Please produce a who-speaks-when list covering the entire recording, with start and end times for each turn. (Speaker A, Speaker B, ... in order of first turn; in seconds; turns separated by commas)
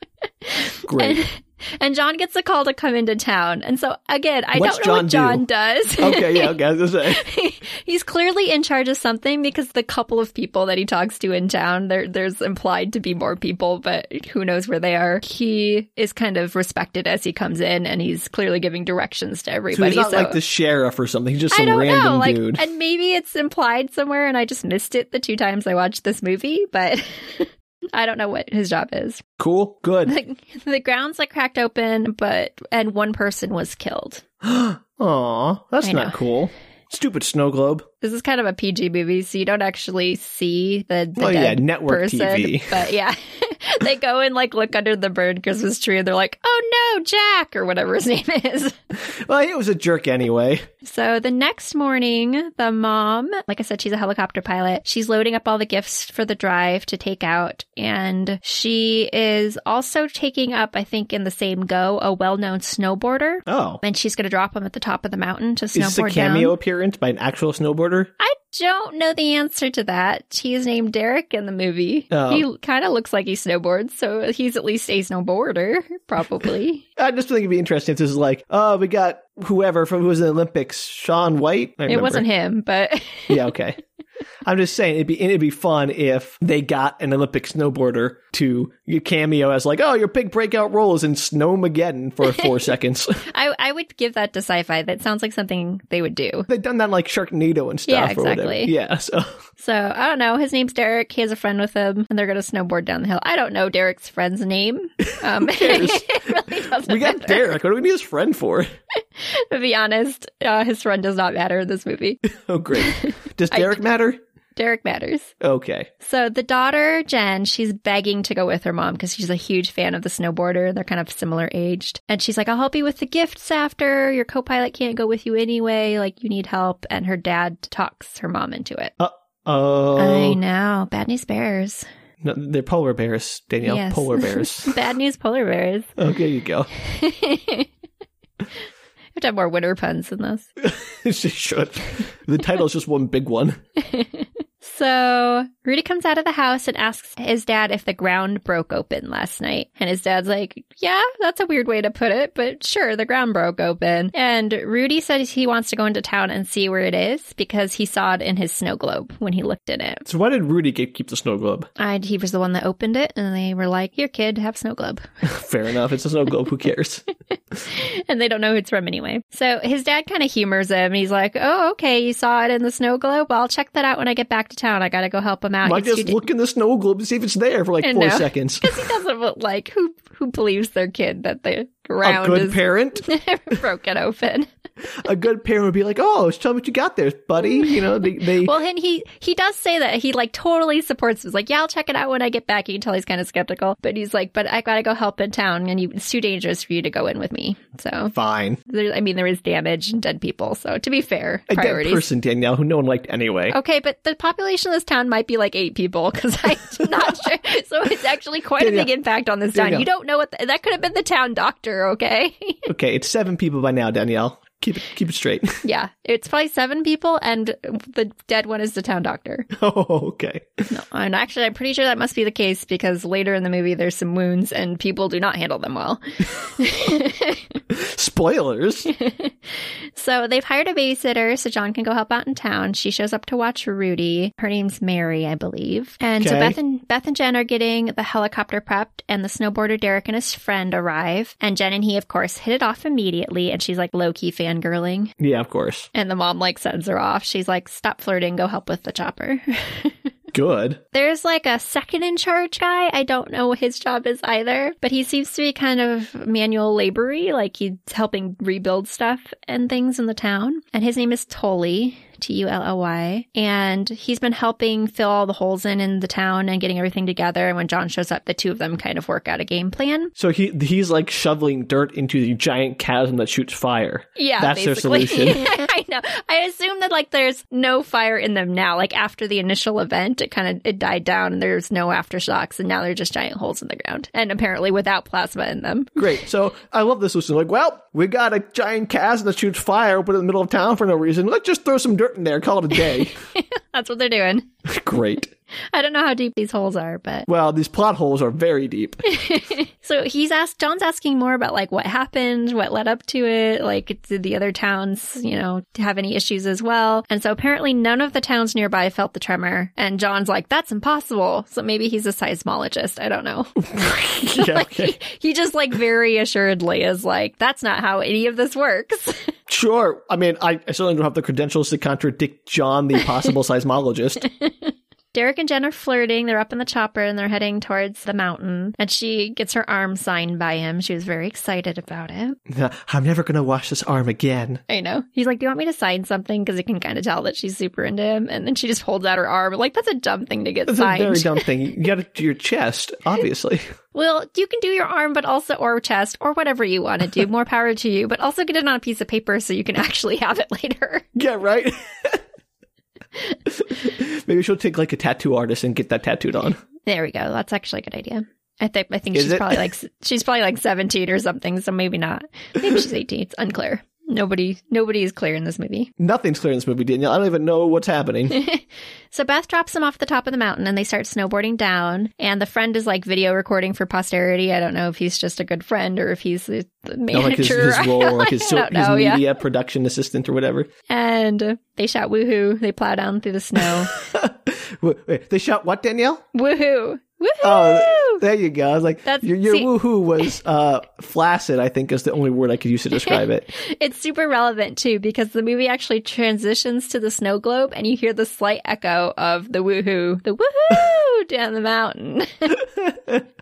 Speaker A: 0.4-20.4, Speaker B: 0.8-1.2, Speaker B: 4.5-5.4, Speaker B: 6.0-7.2, Speaker B: 19.7-22.6, Speaker A: 21.5-29.2, Speaker B: 29.4-30.1, Speaker A: 30.1-34.2, Speaker B: 34.4-37.9, Speaker A: 35.8-36.1, Speaker A: 38.0-48.8, Speaker B: 41.2-42.8, Speaker B: 49.1-50.7, Speaker A: 50.8-66.5, Speaker B: 63.5-63.8, Speaker B: 65.7-68.1, Speaker A: 68.2-76.8, Speaker B: 72.1-72.5, Speaker B: 77.0-82.2, Speaker A: 81.9-83.4, Speaker B: 83.3-83.8, Speaker B: 84.4-93.3, Speaker A: 93.3-96.5, Speaker B: 96.5-99.4, Speaker A: 97.9-98.7, Speaker A: 99.6-107.5, Speaker B: 105.0-108.7, Speaker A: 109.2-112.2, Speaker B: 112.2-114.2, Speaker A: 112.8-113.8, Speaker A: 114.5-115.3, Speaker B: 115.4-115.9, Speaker A: 116.0-128.9, Speaker B: 129.0-130.4, Speaker A: 130.0-131.9, Speaker B: 132.2-134.8, Speaker A: 133.6-135.9, Speaker B: 136.0-136.7, Speaker A: 136.8-137.7, Speaker A: 139.1-140.4, Speaker B: 140.6-143.6, Speaker A: 143.8-160.0, Speaker B: 160.0-161.7, Speaker A: 161.8-165.0, Speaker B: 165.2-167.1, Speaker A: 167.7-176.2, Speaker B: 175.6-178.8, Speaker A: 177.8-184.5, Speaker B: 182.0-183.1, Speaker B: 184.9-188.5, Speaker A: 187.4-198.1, Speaker B: 198.1-198.6, Speaker A: 198.7-202.0, Speaker B: 201.5-203.6, Speaker A: 203.5-212.7, Speaker B: 208.6-208.9, Speaker B: 209.5-209.9, Speaker B: 212.7-215.6, Speaker A: 215.6-219.5, Speaker B: 219.5-220.7, Speaker A: 220.7-227.5, Speaker B: 227.7-228.9, Speaker A: 228.9-229.3, Speaker A: 229.9-245.1, Speaker B: 236.2-236.6, Speaker B: 245.2-245.9, Speaker A: 245.9-250.1, Speaker B: 250.3-250.8, Speaker A: 250.9-270.1, Speaker B: 270.1-275.4, Speaker A: 274.1-286.1, Speaker B: 286.0-293.1, Speaker A: 292.7-294.5, Speaker B: 294.6-295.3, Speaker A: 295.7-297.3, Speaker B: 297.3-299.1, Speaker A: 299.1-313.5, Speaker B: 313.6-315.0, Speaker A: 314.3-319.3, Speaker B: 319.5-324.2, Speaker A: 324.4-332.4, Speaker B: 332.5-334.6, Speaker A: 334.7-341.5, Speaker B: 340.7-343.7, Speaker A: 343.9-351.1, Speaker B: 351.1-352.2, Speaker B: 353.5-356.6, Speaker A: 356.8-365.9, Speaker B: 359.1-359.6, Speaker B: 366.0-368.4, Speaker A: 368.3-379.3, Speaker B: 377.1-380.7, Speaker A: 380.9-383.9, Speaker B: 383.9-386.2, Speaker A: 386.3-388.2, Speaker B: 387.4-393.5, Speaker A: 389.0-389.7, Speaker A: 393.0-402.5, Speaker B: 402.5-403.2